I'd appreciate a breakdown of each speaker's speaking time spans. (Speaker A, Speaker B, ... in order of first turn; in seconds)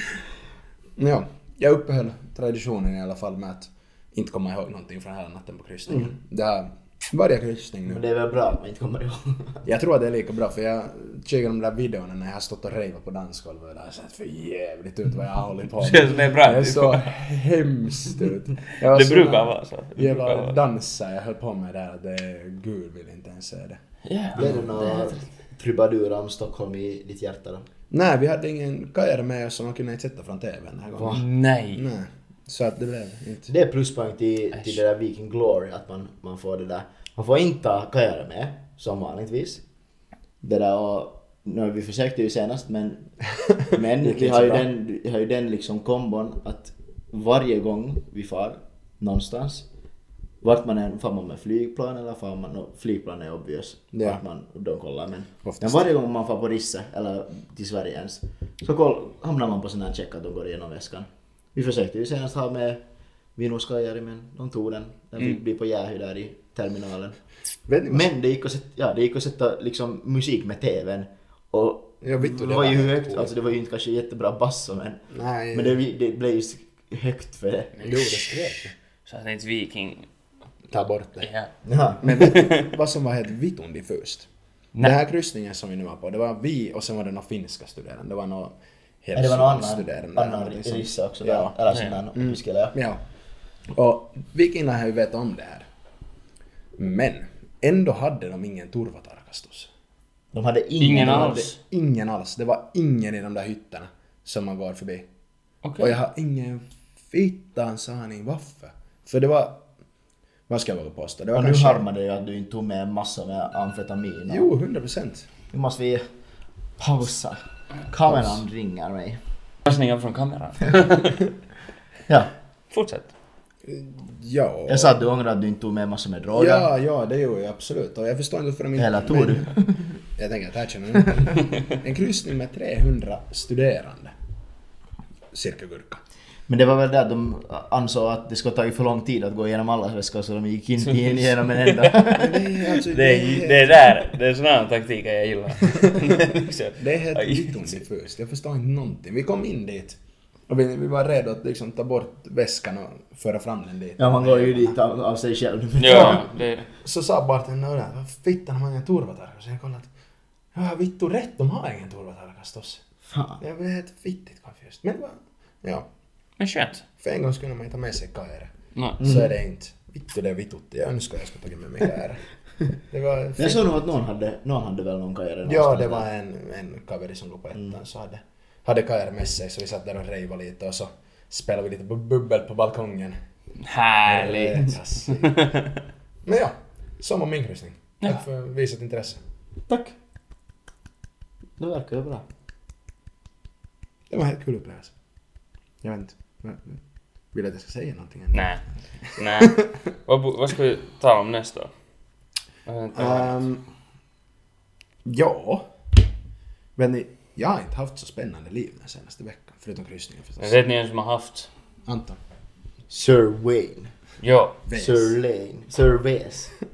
Speaker A: 1.0-8.0, 9.6-23.8, 24.4-25.0, 27.9-33.5, 43.6-44.6, 53.9-54.2, 55.4-55.8, 67.7-68.1, 72.0-73.3, 75.1-75.8, 77.8-78.7, 80.7-81.3, 82.0-84.3, 84.8-91.6, 92.1-93.0, 93.7-95.7, 96.8-99.7, 100.9-105.1, 105.8-109.6, 110.5-111.8, 114.3-115.3, 118.1-118.4, 123.6-125.0, 126.3-129.5, 130.2-134.1, 135.3-136.0, 142.1-144.0, 146.8-150.0, 150.5-154.8, 155.8-159.9, 160.5-162.8, 163.4-165.8, 167.0-172.2, 172.9-173.6, 175.4-183.2, 184.1-185.6, 186.2-189.2, 194.1-194.9, 195.8-196.8, 197.3-198.5, 199.1-199.7, 202.9-203.6, 205.0-205.7, 206.8-210.6, 211.8-212.2, 214.7-215.1
Speaker B: 5.9-6.1, 7.8-9.6, 24.4-27.6, 30.9-31.2, 33.5-39.6, 40.4-43.1, 43.7-49.6, 50.4-62.8, 63.4-67.2, 67.9-78.5, 81.6-82.0, 89.1-92.7, 100.3-101.5, 111.3-114.5, 115.5-116.0, 116.8-119.2, 124.7-126.7, 128.8-129.9, 136.5-142.5, 154.0-156.2, 163.1-163.4, 169.0-169.3, 173.4-176.1, 189.7-189.9, 191.6-192.2, 212.9-213.9, 214.7-216.5
Speaker C: 15.8-17.1, 18.8-20.6, 24.0-25.1, 31.1-31.8, 77.8-78.3, 79.0-80.1, 81.2-81.5, 82.0-82.7, 91.7-92.0, 100.8-101.6, 105.6-106.0, 119.7-121.2, 122.7-123.1, 140.8-142.2, 142.9-147.8, 155.8-156.7, 166.4-166.8, 168.7-169.0, 183.6-185.7, 198.3-201.7, 202.7-203.4, 210.4-211.5, 214.2-214.6